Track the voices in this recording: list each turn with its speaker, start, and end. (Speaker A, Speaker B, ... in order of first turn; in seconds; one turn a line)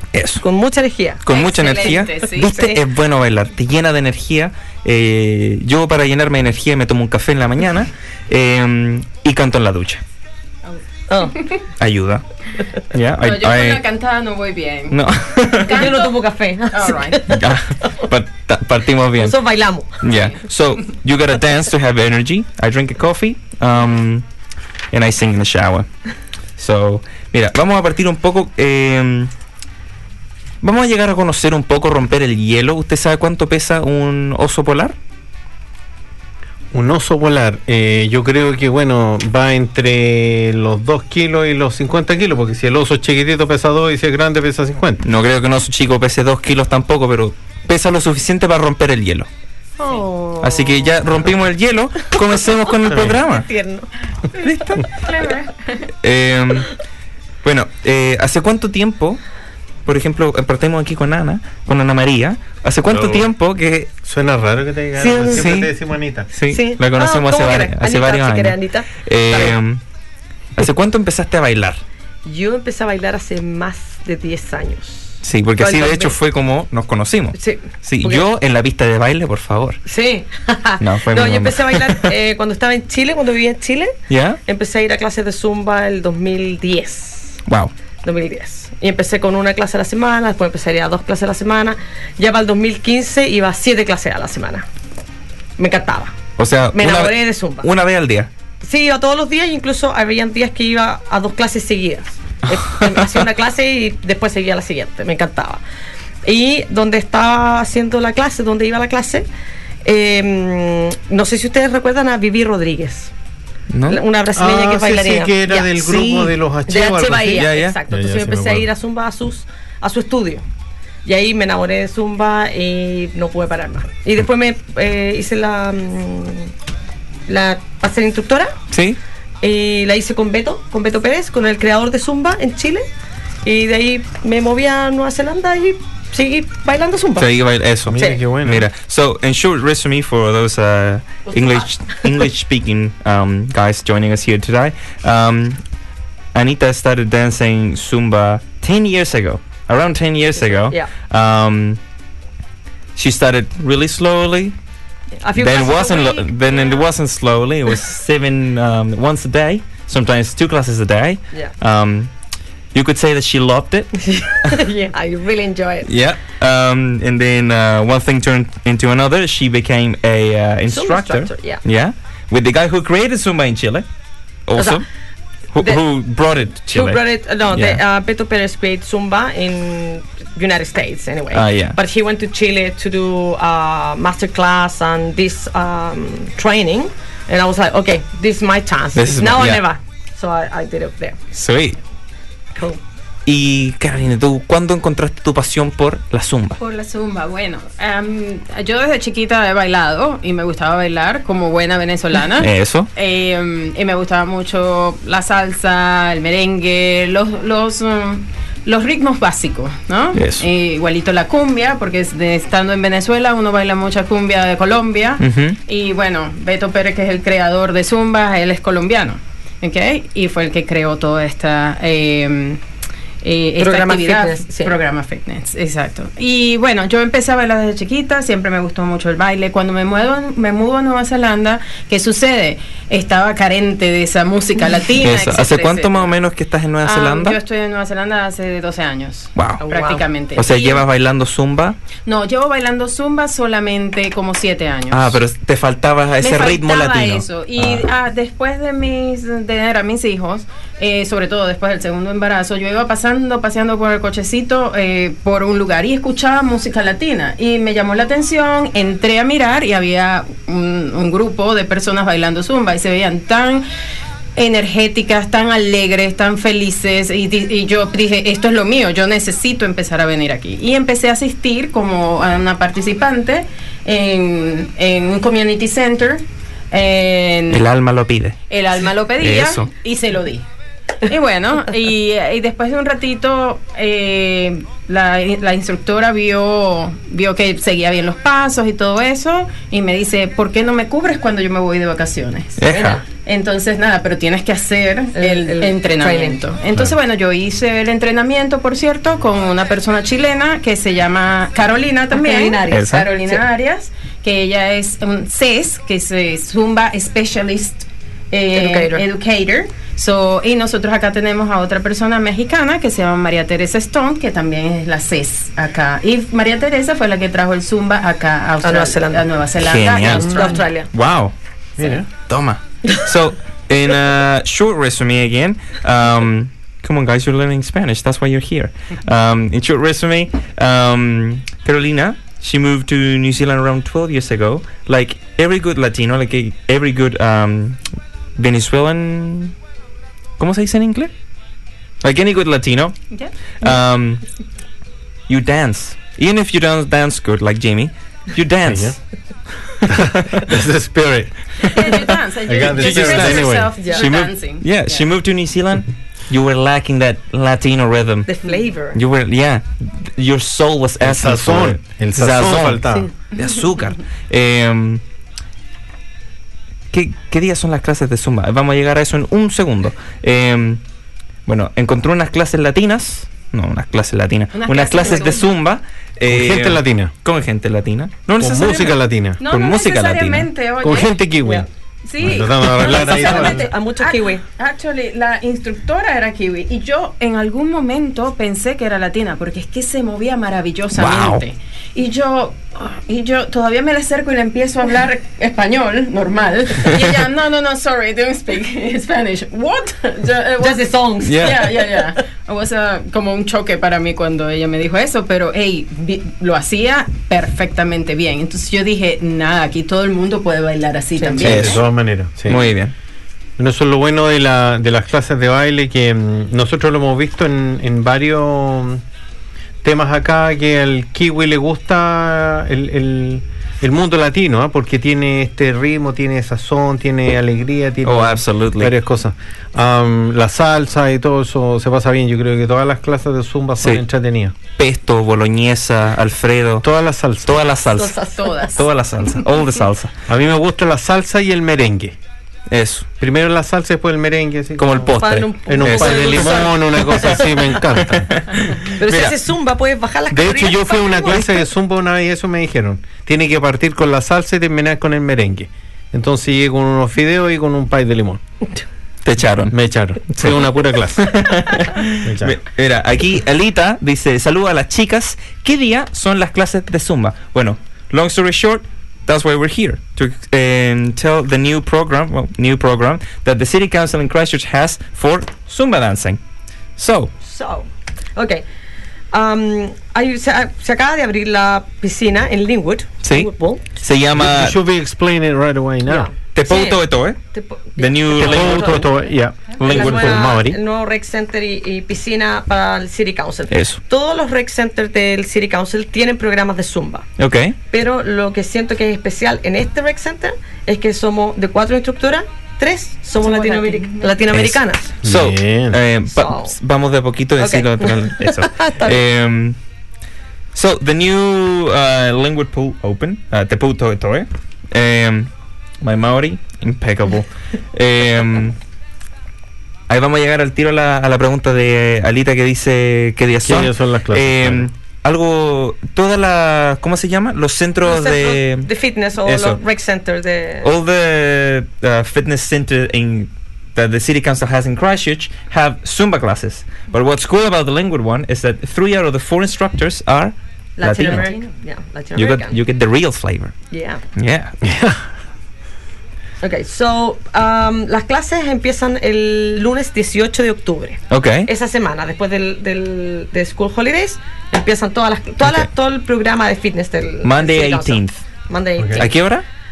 Speaker A: 0.1-0.4
Speaker B: 0.4-1.2
Speaker A: 1.2-10.0
Speaker C: 1.3-2.5
Speaker B: 1.7-2.8
Speaker B: 11.1-11.3
Speaker C: 11.3-11.6
Speaker A: 11.8-12.2
Speaker A: 12.9-13.8
Speaker C: 13.2-15.0
Speaker A: 14.9-16.0
Speaker C: 15.6-16.2
Speaker B: 15.7-17.9
Speaker C: 16.7-17.3
Speaker A: 17.3-19.4
Speaker B: 19.2-20.3
Speaker A: 20.0-24.2
Speaker A: 24.9-25.9
Speaker A: 26.6-29.3
Speaker A: 30.6-35.0
Speaker D: 36.7-45.1
Speaker A: 45.0-49.3
Speaker B: 49.8-51.0
Speaker A: 50.4-53.5
Speaker D: 52.9-53.1
Speaker B: 52.9-53.9
Speaker C: 54.4-55.8
Speaker A: 54.4-54.9
Speaker A: 56.0-56.8
Speaker A: 57.4-59.2
Speaker A: 59.9-63.9
Speaker D: 62.9-63.3
Speaker D: 64.0-66.3
Speaker B: 65.0-65.5
Speaker A: 65.3-65.7
Speaker A: 66.3-69.8
Speaker B: 66.5-69.5
Speaker A: 70.6-71.8
Speaker B: 72.2-76.1
Speaker A: 75.2-79.8
Speaker B: 77.3-78.2
Speaker B: 79.9-87.4
Speaker A: 80.8-82.1
Speaker A: 84.1-84.4
Speaker A: 87.5-87.7
Speaker B: 88.0-94.7
Speaker B: 95.6-96.2
Speaker A: 96.4-98.3
Speaker B: 96.7-97.7
Speaker B: 98.6-105.6
Speaker B: 106.2-109.3
Speaker B: 109.8-113.1
Speaker A: 113.7-114.0
Speaker B: 113.9-116.1
Speaker D: 114.3-118.7
Speaker A: 115.8-116.3
Speaker B: 116.7-120.4
Speaker A: 117.3-117.8
Speaker B: 121.0-126.5
Speaker B: 127.3-128.6
Speaker A: 128.7-129.0
Speaker B: 129.4-132.8
Speaker B: 133.4-137.3
Speaker A: 137.2-145.6
Speaker D: 137.8-138.7
Speaker B: 137.9-138.2
Speaker B: 141.3-141.9
Speaker A: 146.3-151.8
Speaker B: 150.4-150.9
Speaker A: 152.9-154.5
Speaker B: 155.2-156.8
Speaker A: 155.4-162.1
Speaker A: 162.7-164.5
Speaker B: 164.1-165.9
Speaker A: 165.8-173.8
Speaker B: 170.7-171.6
Speaker A: 174.5-174.8
Speaker B: 174.6-174.8
Speaker A: 175.5-177.8
Speaker B: 176.7-191.2
Speaker A: 181.3-181.8
Speaker A: 188.9-189.6
Speaker A: 191.3-191.8
Speaker B: 192.5-192.8
Speaker A: 193.2-196.6
Speaker C: 196.6-222.6
Speaker A: 202.4-202.9
Speaker A: 210.1-210.4
Speaker A: 215.2-215.6
Speaker C: 223.2-236.1
Speaker B: 223.6-224.7
Speaker A: 235.0-237.4
Speaker C: 236.8-240.8
Speaker A: 239.3-239.6
Speaker B: 239.6-240.0
Speaker A: 240.3-241.8
Speaker C: 242.0-245.2
Speaker A: 244.9-247.9
Speaker C: 246.2-263.6
Speaker C: 264.4-277.6
Speaker A: 277.5-278.4
Speaker C: 278.5-280.4
Speaker A: 279.2-279.7
Speaker C: 281.0-292.6
Speaker A: 292.6-293.0
Speaker B: 292.7-293.0
Speaker C: 293.2-320.7
Speaker B: 295.1-296.4
Speaker B: 302.1-303.4
Speaker A: 302.7-303.1
Speaker B: 308.5-309.0
Speaker B: 318.6-319.3
Speaker A: 319.6-321.3
Speaker B: 320.1-320.9
Speaker D: 321.8-322.1
Speaker A: 322.2-337.8
Speaker A: 338.4-339.5
Speaker A: 340.4-341.1
Speaker A: 342.0-344.3
Speaker A: 345.3-349.0
Speaker D: 348.7-349.0
Speaker D: 349.8-351.9
Speaker C: 351.7-355.0
Speaker D: 352.5-353.7
Speaker A: 352.7-358.4
Speaker B: 353.8-354.0
Speaker B: 358.3-359.0
Speaker A: 358.9-365.0
Speaker D: 361.0-363.1
Speaker A: 366.9-370.8
Speaker A: 371.4-380.5
Speaker C: 374.5-375.5
Speaker D: 376.3-377.1
Speaker D: 378.4-379.4
Speaker C: 379.4-381.2
Speaker D: 380.8-381.7
Speaker C: 382.0-411.7
Speaker D: 382.2-383.6
Speaker B: 382.8-384.4
Speaker A: 391.0-391.4
Speaker B: 400.6-402.1
Speaker A: 401.2-401.6
Speaker B: 411.2-411.7
Speaker D: 411.4-412.6
Speaker A: 411.4-411.9
Speaker A: 412.4-412.9
Speaker D: 413.6-419.0
Speaker D: 419.8-434.5
Speaker A: 428.0-428.9
Speaker A: 434.8-436.8
Speaker D: 436.8-437.7
Speaker A: 437.4-438.2
Speaker B: 437.9-438.8
Speaker C: 438.4-438.8
Speaker A: 438.7-440.1
Speaker D: 440.3-442.2
Speaker A: 442.7-443.1
Speaker D: 443.2-448.4
Speaker A: 444.8-447.1
Speaker B: 445.0-447.4
Speaker A: 447.9-449.4
Speaker B: 449.0-451.4
Speaker D: 450.3-458.4
Speaker A: 459.2-459.8
Speaker D: 459.7-461.6
Speaker A: 460.3-460.6
Speaker A: 461.1-476.4
Speaker D: 462.2-462.6
Speaker A: 477.0-477.3
Speaker B: 477.4-478.6
Speaker B: 479.3-483.8
Speaker A: 483.2-484.8
Speaker D: 484.3-486.3
Speaker B: 486.1-487.0
Speaker A: 486.5-487.4
Speaker B: 487.5-489.1
Speaker A: 487.9-489.1
Speaker D: 488.4-490.8
Speaker A: 489.8-490.5
Speaker B: 489.8-497.3
Speaker A: 493.7-494.0
Speaker A: 497.4-497.7
Speaker B: 497.9-505.1
Speaker C: 503.4-504.4
Speaker A: 504.5-509.8
Speaker D: 505.2-506.0
Speaker B: 506.3-506.7
Speaker B: 507.6-509.2
Speaker A: 510.7-515.5
Speaker A: 516.0-518.8
Speaker A: 520.1-528.9
Speaker D: 523.6-524.9
Speaker B: 528.0-530.9
Speaker A: 529.4-529.8
Speaker A: 530.8-541.5
Speaker B: 541.0-542.8
Speaker C: 541.3-541.7
Speaker A: 542.3-544.7
Speaker B: 543.9-544.2
Speaker D: 544.8-545.3
Speaker B: 546.6-559.4
Speaker A: 551.3-551.7
Speaker A: 555.6-555.9
Speaker A: 557.4-558.4
Speaker D: 559.0-559.3
Speaker A: 559.2-559.6